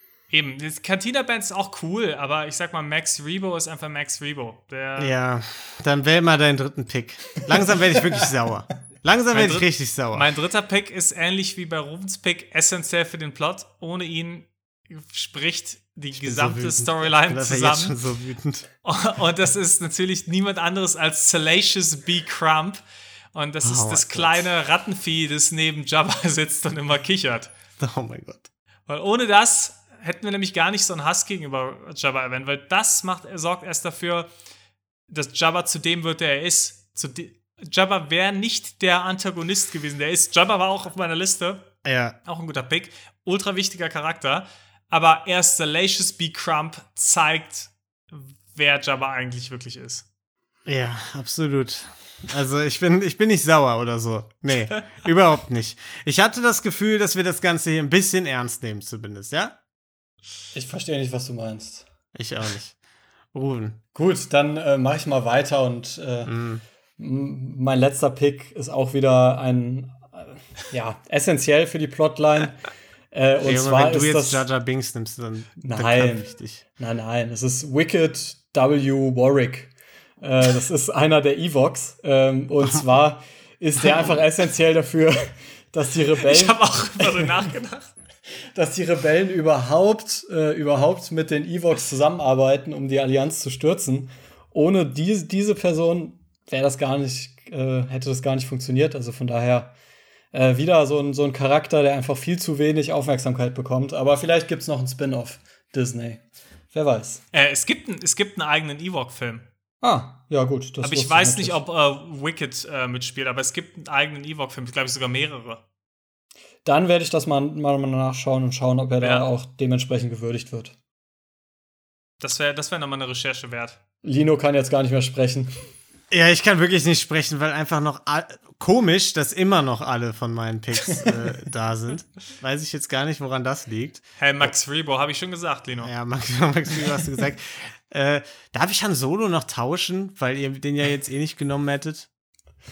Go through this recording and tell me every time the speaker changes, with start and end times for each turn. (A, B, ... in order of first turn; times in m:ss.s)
0:00.3-0:05.1 A
0:05.0-0:10.3 B
0:09.3-0:17.9 A
0:16.2-0:18.7 B
0:18.8-0:22.8 A
0:23.3-0:27.5 A
0:23.6-0:24.5 B
0:27.8-0:28.5 B
0:28.9-0:34.3 A
0:35.1-0:41.7 A
0:41.8-0:42.2 B
0:42.2-0:50.0 A
0:50.7-0:59.6 B
1:00.5-1:01.9 C
1:02.1-1:02.8 B
1:03.3-1:03.8 B
1:04.0-1:06.3 C
1:06.2-1:06.6 B
1:07.0-1:14.4 C
1:13.4-1:16.6 B
1:15.6-1:27.3 C
1:26.2-1:27.9 A
1:28.5-1:39.8 C
1:40.3-1:47.2 C
1:47.3-1:49.5 A
1:49.8-1:51.6 C
1:50.8-1:55.6 A
1:56.6-2:00.7 C
1:59.0-1:59.3 A
2:02.2-2:03.8 A
2:04.0-2:05.5 C
2:06.1-2:14.5 B
2:14.2-2:15.9 A
2:15.8-2:22.1 B